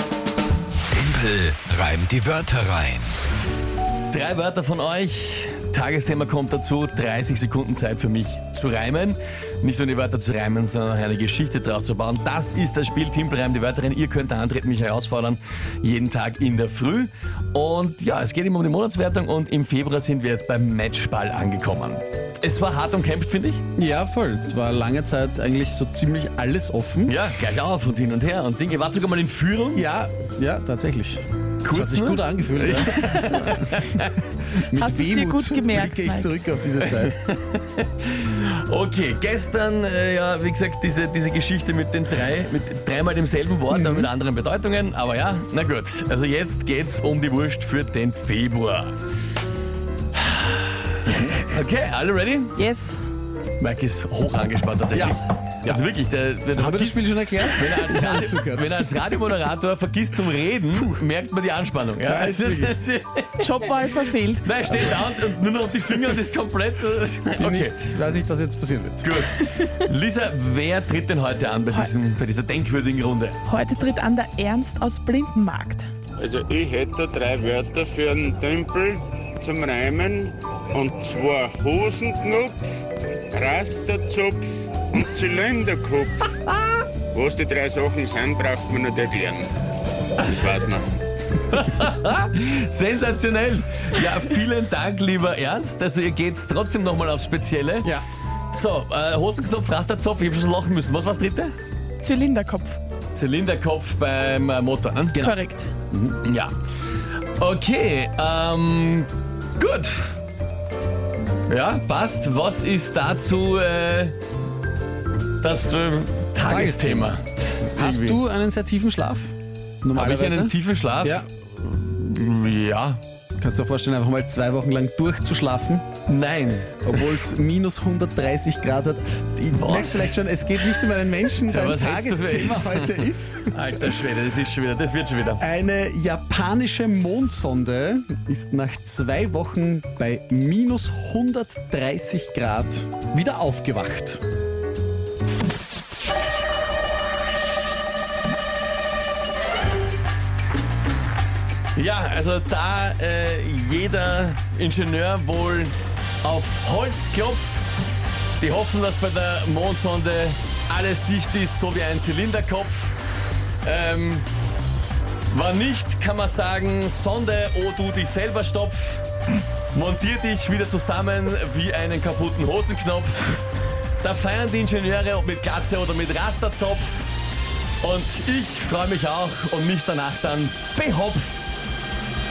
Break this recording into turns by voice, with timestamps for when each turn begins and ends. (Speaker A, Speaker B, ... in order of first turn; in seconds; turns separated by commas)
Speaker A: 0.9-3.2, Speaker B: 4.1-23.6, Speaker C: 23.8-27.1, Speaker B: 27.1-29.8, Speaker C: 29.7-33.9, Speaker B: 31.6-34.1, Speaker C: 34.7-37.2, Speaker D: 34.7-36.3, Speaker B: 36.8-48.9, Speaker C: 43.7-44.1, Speaker B: 50.2-52.5, Speaker D: 52.6-53.0, Speaker B: 53.6-63.5, Speaker C: 54.9-55.8, Speaker C: 56.5-58.7, Speaker C: 60.7-61.0, Speaker C: 62.0-62.8, Speaker D: 63.4-64.9, Speaker B: 64.4-67.8, Speaker C: 67.3-69.2, Speaker B: 69.0-73.4, Speaker D: 73.5-75.9, Speaker E: 76.2-82.7, Speaker E: 83.3-86.4, Speaker E: 87.1-89.5, Speaker E: 90.2-91.0, Speaker B: 91.5-97.9, Speaker B: 98.5-101.5, Speaker D: 102.0-102.8, Speaker B: 103.2-105.3, Speaker D: 105.2-105.7, Speaker C: 105.9-106.2, Speaker B: 106.2-106.5, Speaker B: 107.4-110.2, Speaker B: 111.5-114.2, Speaker B: 115.4-118.2, Speaker C: 116.4-121.2, Speaker B: 119.9-123.0, Speaker C: 123.4-125.9, Speaker B: 126.1-127.0, Speaker C: 126.9-133.8, Speaker B: 129.6-130.2, Speaker B: 131.4-135.4, Speaker C: 135.4-144.2, Speaker B: 151.8-157.6, Speaker B: 158.4-163.0, Speaker B: 163.6-164.3, Speaker B: 165.3-169.1, Speaker B: 169.7-173.4, Speaker B: 174.0-177.1, Speaker B: 177.8-181.4